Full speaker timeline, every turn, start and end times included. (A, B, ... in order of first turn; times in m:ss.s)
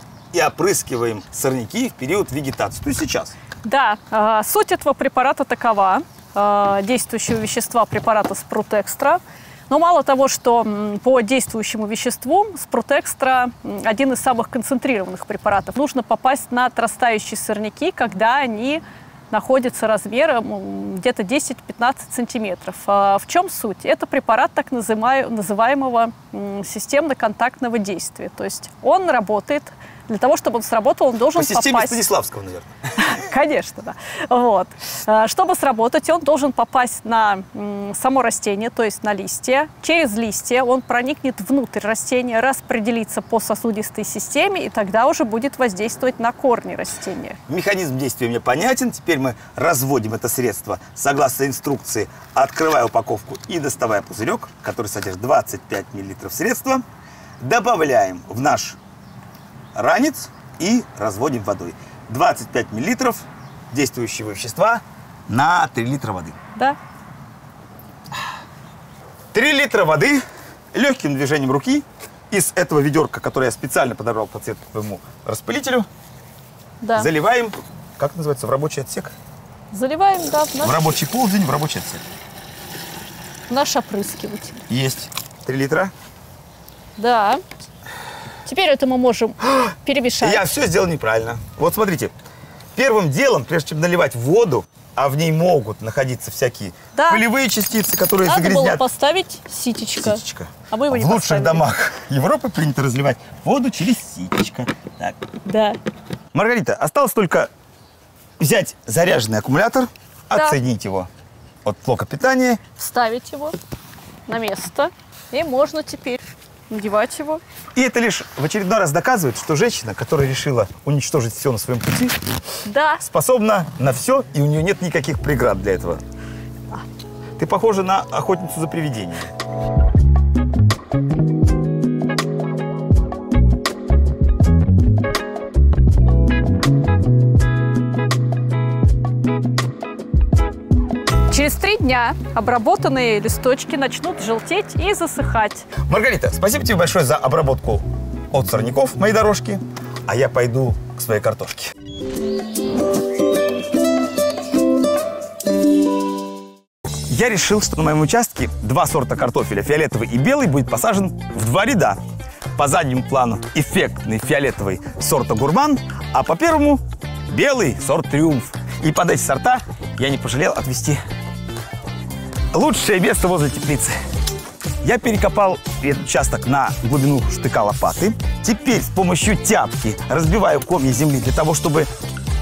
0:00.3-0:03.4 A
0:03.6-0:32.0 B
0:31.3-0:33.2 A
0:33.0-0:47.4 B
0:47.5-0:56.8 A
0:57.4-0:58.8 A
0:59.8-1:06.4 A
1:09.3-1:10.2 A
1:10.7-1:15.9 A
1:16.8-1:17.1 B
1:17.0-1:19.1 A
1:19.7-1:20.8 B
1:20.6-1:22.0 A
1:23.5-1:24.6 B
1:24.7-1:25.9 A
1:27.0-1:27.4 B
1:28.5-1:30.4 B
1:29.5-1:32.1 A
1:32.8-1:38.8 A
1:37.0-1:37.2 B
1:38.2-1:41.6 B
1:40.0-1:45.2 A
1:45.4-1:45.8 B
1:46.3-1:47.5 A
1:48.4-1:51.1 A
1:51.6-1:52.6 A
1:52.8-1:53.6 B
1:54.3-1:57.4 B
1:57.8-2:02.2 A
2:02.6-2:03.0 B
2:03.0-2:06.0 A
2:07.4-2:09.3 A
2:21.3-2:25.7 B
2:25.9-2:31.7 A
2:37.1-2:42.0 A
2:42.6-2:51.0 A
2:52.5-2:54.0 A
2:54.8-3:01.9 A